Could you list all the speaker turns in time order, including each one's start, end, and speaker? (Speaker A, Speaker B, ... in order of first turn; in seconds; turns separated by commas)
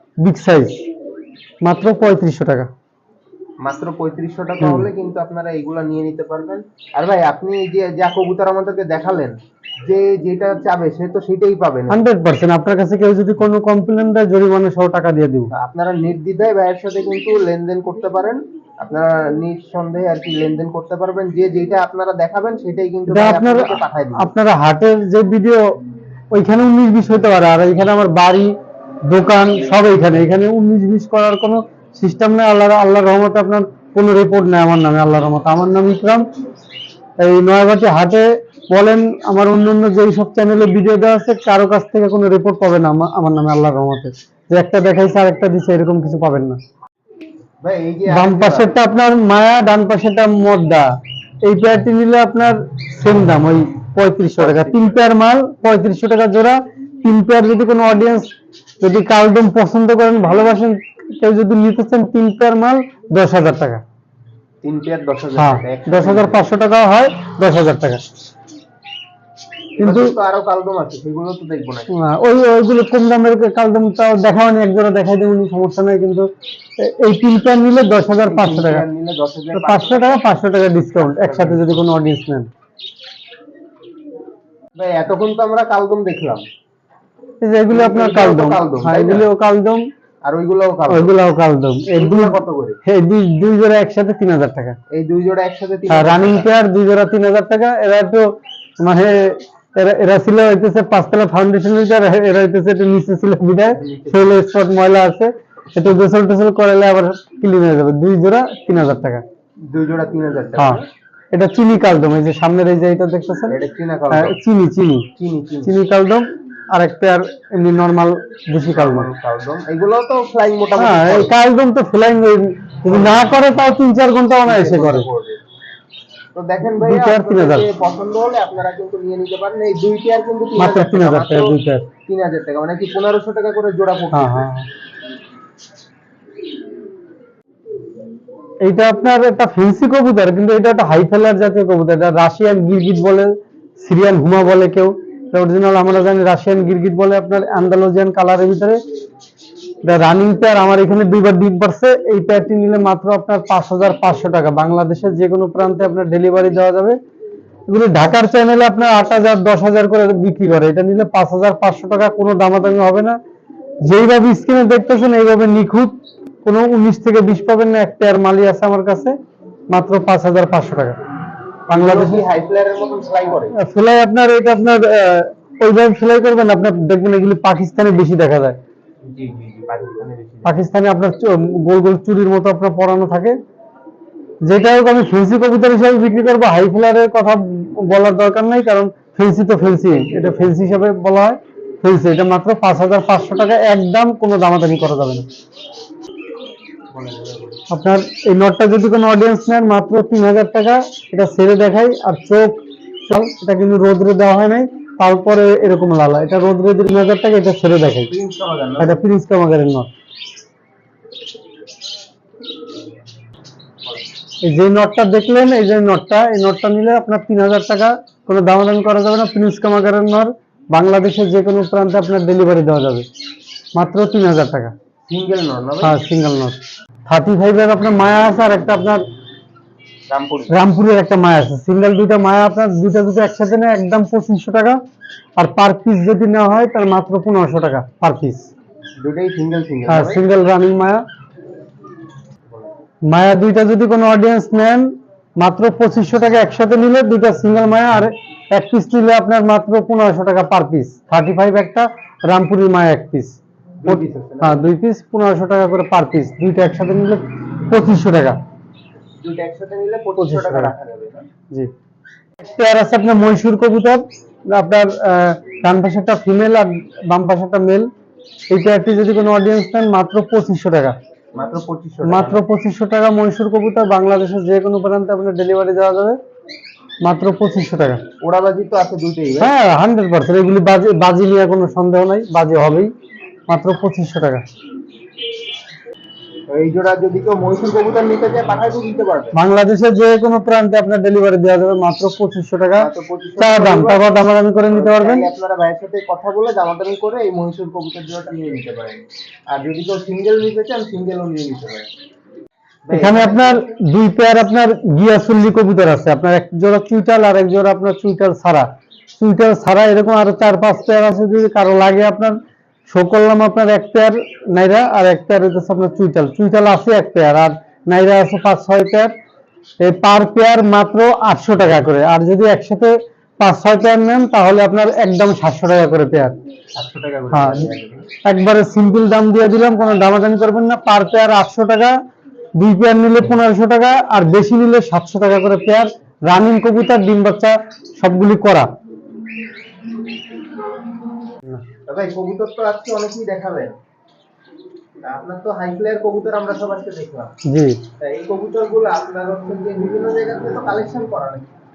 Speaker A: 0.2-0.8, Speaker A: 1.6-2.7, Speaker B: 3.6-12.0, Speaker A: 4.6-4.9, Speaker A: 11.9-15.5, Speaker B: 15.5-24.3, Speaker A: 23.1-25.6, Speaker A: 26.3-28.5, Speaker A: 29.1-36.2, Speaker A: 37.2-46.6, Speaker B: 47.6-48.7, Speaker A: 48.1-50.9, Speaker A: 51.4-63.8, Speaker B: 54.4-55.0, Speaker B: 64.6-66.5, Speaker A: 65.4-68.0, Speaker B: 69.8-71.9, Speaker A: 69.8-70.2, Speaker A: 71.9-78.8, Speaker B: 78.3-80.2, Speaker A: 79.5-82.5, Speaker B: 81.0-81.8, Speaker B: 84.8-86.5, Speaker A: 87.4-89.8, Speaker B: 87.7-89.3, Speaker B: 90.2-91.1, Speaker A: 90.9-94.8, Speaker B: 91.9-92.8, Speaker B: 94.9-96.5, Speaker A: 95.9-109.2, Speaker B: 103.7-104.3, Speaker B: 109.7-110.9, Speaker A: 111.3-113.6, Speaker B: 113.5-114.3, Speaker A: 114.1-115.1, Speaker B: 115.2-115.7, Speaker A: 115.6-119.1, Speaker B: 118.6-121.3, Speaker A: 120.8-125.1, Speaker B: 124.5-125.4, Speaker B: 126.3-131.5, Speaker A: 126.7-127.7, Speaker A: 130.6-131.9, Speaker B: 132.1-134.5, Speaker A: 134.1-134.7, Speaker A: 138.6-148.8, Speaker A: 149.8-157.0, Speaker A: 157.7-163.2, Speaker A: 163.8-169.2, Speaker A: 169.7-171.0, Speaker A: 171.7-172.2, Speaker B: 171.7-173.6, Speaker A: 173.6-178.6, Speaker B: 179.1-180.7, Speaker A: 180.4-183.4, Speaker A: 184.4-195.3, Speaker B: 189.9-190.6, Speaker B: 196.9-197.6, Speaker A: 197.7-208.1, Speaker B: 208.1-209.0, Speaker A: 208.8-209.9, Speaker A: 214.4-223.1, Speaker A: 223.8-224.7, Speaker B: 225.1-226.0, Speaker A: 225.8-229.0, Speaker B: 230.1-230.6, Speaker A: 230.5-234.8, Speaker A: 235.4-238.5, Speaker B: 239.0-240.2, Speaker A: 239.9-241.0, Speaker A: 243.0-258.4, Speaker B: 253.8-254.6, Speaker B: 259.2-261.3, Speaker A: 260.2-260.7, Speaker A: 262.4-267.9, Speaker A: 268.5-271.0, Speaker B: 271.4-272.4, Speaker A: 272.1-276.2, Speaker A: 277.0-278.0, Speaker B: 278.2-279.5, Speaker A: 279.4-282.9, Speaker A: 283.5-284.4, Speaker B: 286.5-289.4, Speaker A: 289.4-292.9, Speaker B: 292.8-294.1, Speaker A: 293.4-295.3, Speaker B: 294.7-301.9, Speaker B: 302.9-303.6, Speaker A: 302.9-312.4, Speaker A: 312.9-319.1, Speaker A: 319.8-326.4, Speaker B: 326.8-328.1, Speaker A: 327.3-327.7, Speaker A: 328.2-332.0, Speaker A: 332.6-338.7, Speaker B: 341.9-343.8, Speaker B: 345.0-347.3, Speaker A: 347.5-347.8, Speaker B: 348.0-351.5